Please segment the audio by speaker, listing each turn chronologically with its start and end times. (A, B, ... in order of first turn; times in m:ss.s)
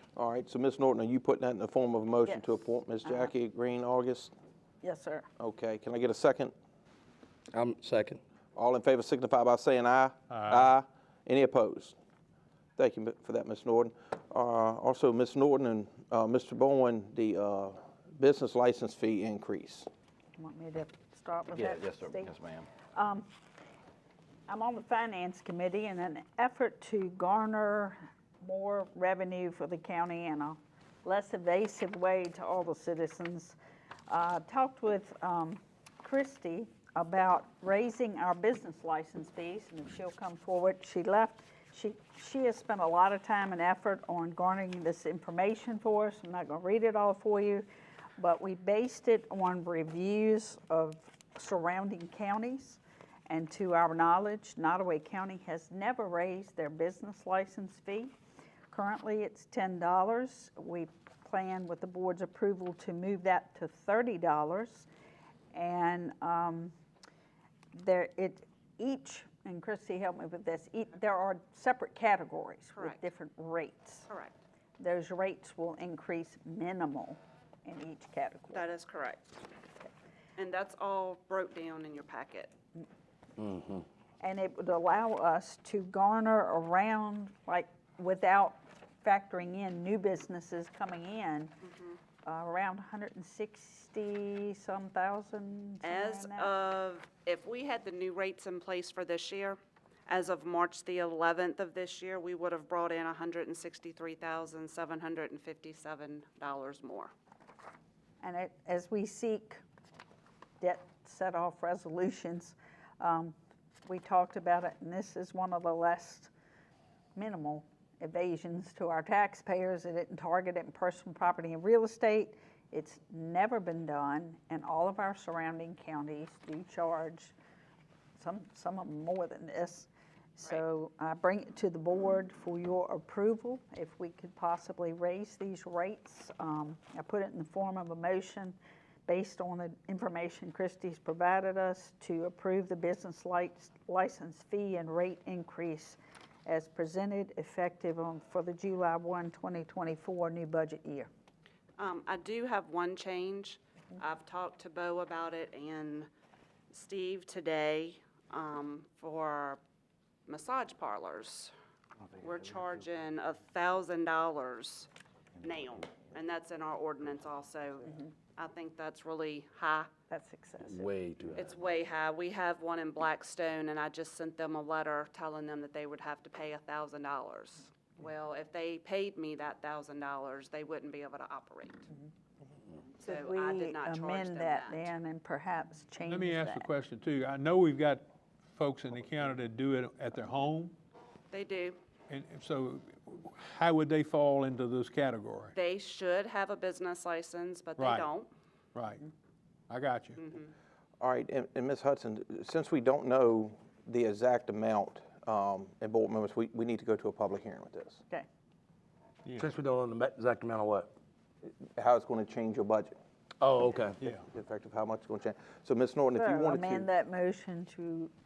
0:00.2-0:04.3 A
0:02.3-0:03.3 B
0:04.8-0:05.3 B
0:05.4-0:06.5 A
0:07.5-0:08.2 C
0:08.6-0:11.9 A
0:10.3-0:10.7 D
0:12.8-0:19.9 A
0:20.4-0:22.4 B
0:21.6-0:22.6 C
0:22.9-0:23.3 B
0:24.5-0:33.6 B
0:34.1-0:47.6 B
0:48.2-0:58.2 B
0:58.7-1:04.9 B
1:05.5-1:06.7 B
1:07.7-1:14.1 B
1:12.8-1:13.0 E
1:14.1-1:14.4 E
1:14.8-1:18.6 B
1:18.5-1:19.3 E
1:20.4-1:22.5 E
1:23.4-1:23.8 C
1:24.2-1:31.6 B
1:31.6-1:32.0 E
1:32.2-1:36.5 B
1:35.8-1:39.6 E
1:40.1-1:47.1 E
1:48.2-1:49.6 B
1:50.6-1:56.3 B
1:57.2-2:07.3 B
2:08.2-2:18.6 B
2:19.1-2:31.1 B
2:31.8-2:36.1 E
2:36.7-2:39.6 E
2:40.3-2:41.5 E
2:42.2-2:49.9 E
2:50.1-2:50.9 B
2:50.6-2:51.5 C
2:51.4-3:01.9 E
3:03.0-3:06.7 B
3:03.0-3:04.9 E
3:06.1-3:08.0 D
3:08.5-3:10.7 D
3:11.3-3:11.8 E
3:12.1-3:15.5 D
3:15.5-3:18.3 E
3:17.8-3:18.1 D
3:18.7-3:19.0 D
3:19.7-3:20.2 D
3:20.2-3:20.5 E
3:21.0-3:28.0 A
3:29.4-3:30.9 C
3:31.6-3:32.9 A
3:33.4-3:34.0 C
3:34.3-3:36.9 A
3:36.1-3:38.1 B